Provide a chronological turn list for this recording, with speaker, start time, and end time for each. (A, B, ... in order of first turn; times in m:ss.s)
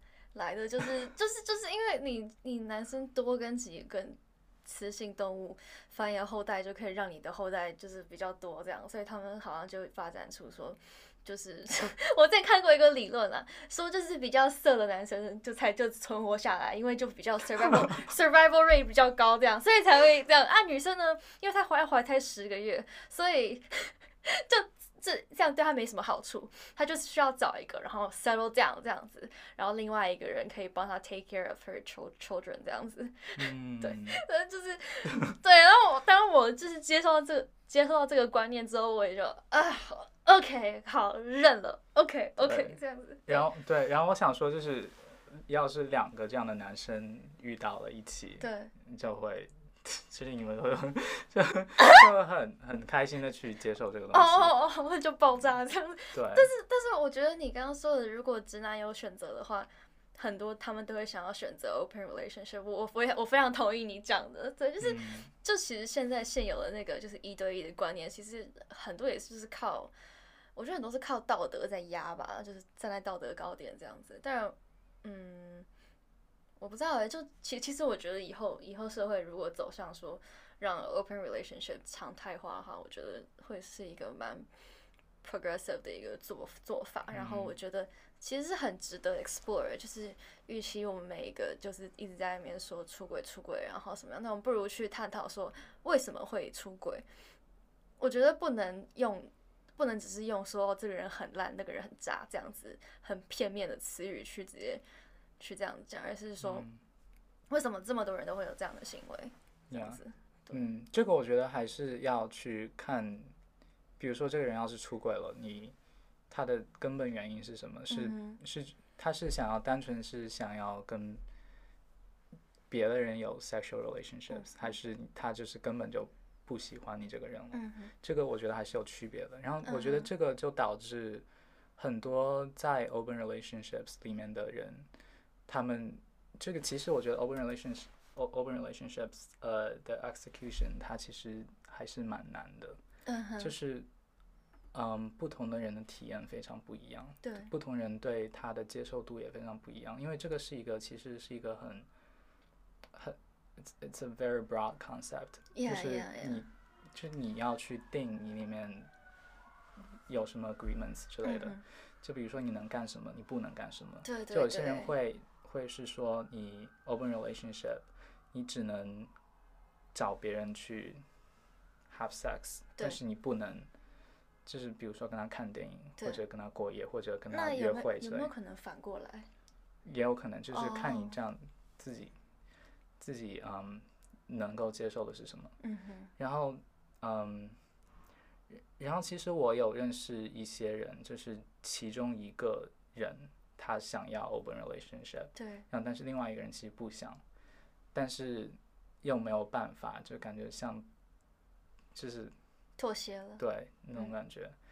0:00.3-0:43.5 A
0:33.4-0:34.2 B
0:42.4-0:54.5 B
0:48.4-0:48.7 A
0:54.1-1:09.9 A
0:56.1-0:56.5 B
1:04.8-1:05.3 B
1:10.5-1:15.7 A
1:16.6-1:24.5 A
1:25.2-1:37.0 A
1:27.1-1:27.6 B
1:38.0-1:44.8 A
1:45.4-1:46.6 A
1:46.4-1:46.8 B
1:47.5-1:50.6 A
1:49.7-1:50.0 B
1:50.5-1:53.3 B
1:54.0-1:55.7 B
1:56.3-2:01.2 B
1:57.9-1:58.4 A
2:02.7-2:11.2 B
2:04.3-2:04.6 A
2:07.5-2:07.9 A
2:09.6-2:10.1 A
2:11.8-2:14.9 B
2:15.5-2:22.8 B
2:23.0-2:23.5 A
2:23.4-2:23.9 B
2:24.7-2:31.9 B
2:27.2-2:27.5 A
2:32.9-2:38.9 B
2:35.5-2:36.4 A
2:40.1-2:49.1 B
2:41.2-2:41.6 A
2:44.0-2:44.9 A
2:49.9-2:51.0 B
2:51.9-2:53.7 B
2:54.4-2:58.3 B
2:57.3-2:59.3 A
2:59.8-3:02.1 B
3:00.5-3:01.2 A
3:03.0-3:05.5 B
3:05.6-3:06.1 A
3:06.2-3:07.6 B
3:08.8-3:17.2 B
3:15.4-3:15.6 A
3:17.9-3:20.8 B
3:21.9-3:22.3 B
3:22.8-3:23.4 A
3:23.4-3:24.6 B